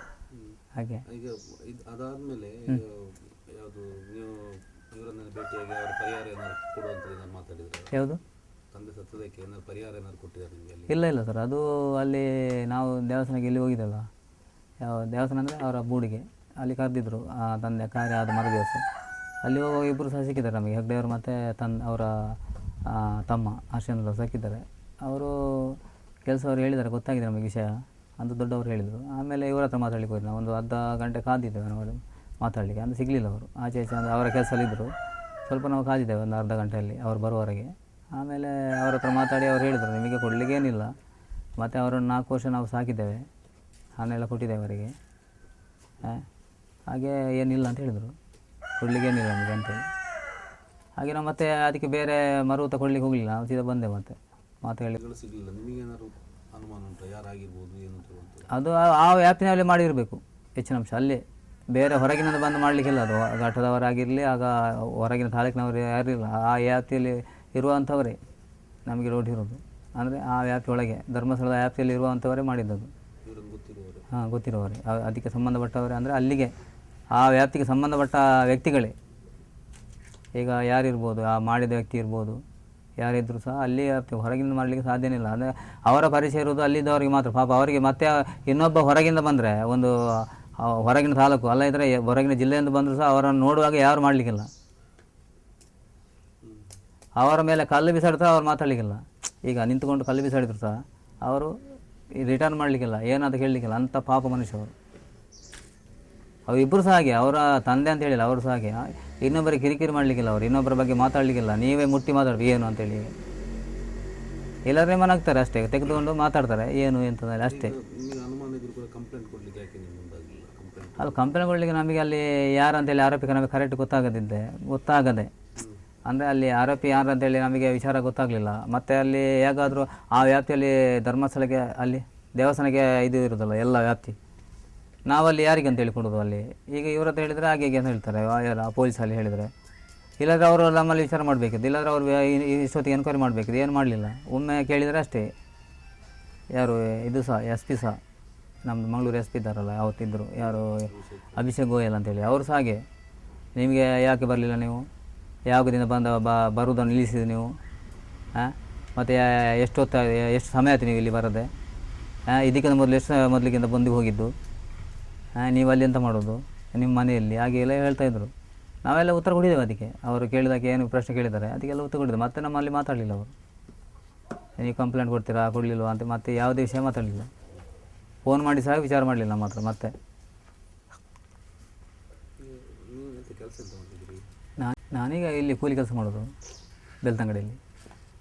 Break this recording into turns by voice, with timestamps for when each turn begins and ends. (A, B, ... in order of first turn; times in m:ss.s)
0:00.8-0:01.0 A
0:01.1-0:07.9 B
0:07.9-0:08.2 A
0:08.7-0:10.9 B
0:10.9-0:14.1 A
0:14.8-0:18.8 A
0:19.4-0:34.9 A
0:35.5-0:40.9 A
0:41.6-0:43.3 A
0:44.0-0:44.9 A
0:46.9-0:48.1 A
0:48.8-0:49.9 A
0:51.0-0:55.0 A
0:55.0-0:58.5 B
0:58.5-1:08.2 A
1:08.8-1:12.9 A
1:13.2-1:14.0 B
1:14.1-1:16.5 A
1:17.1-1:18.9 A
1:20.3-1:22.4 A
1:23.0-1:34.5 A
1:36.4-1:36.7 B
1:37.2-1:41.5 A
1:42.2-1:44.7 A
1:46.5-1:53.1 A
1:54.7-1:57.7 A
1:57.4-2:01.4 B
2:01.0-2:05.3 A
2:06.1-2:14.2 A
2:15.1-2:19.5 A
2:20.2-2:25.3 A
2:26.5-2:28.0 A
2:28.6-2:32.8 A
2:30.4-2:31.4 B
2:33.6-2:34.9 A
2:35.5-2:37.5 A
2:38.3-2:41.5 A
2:42.3-2:44.3 A
2:45.4-2:48.3 A
2:48.8-2:53.3 A
2:54.6-2:57.3 A
2:58.2-2:59.9 A
3:02.4-3:04.2 B
3:04.6-3:06.3 A
3:07.0-3:07.6 A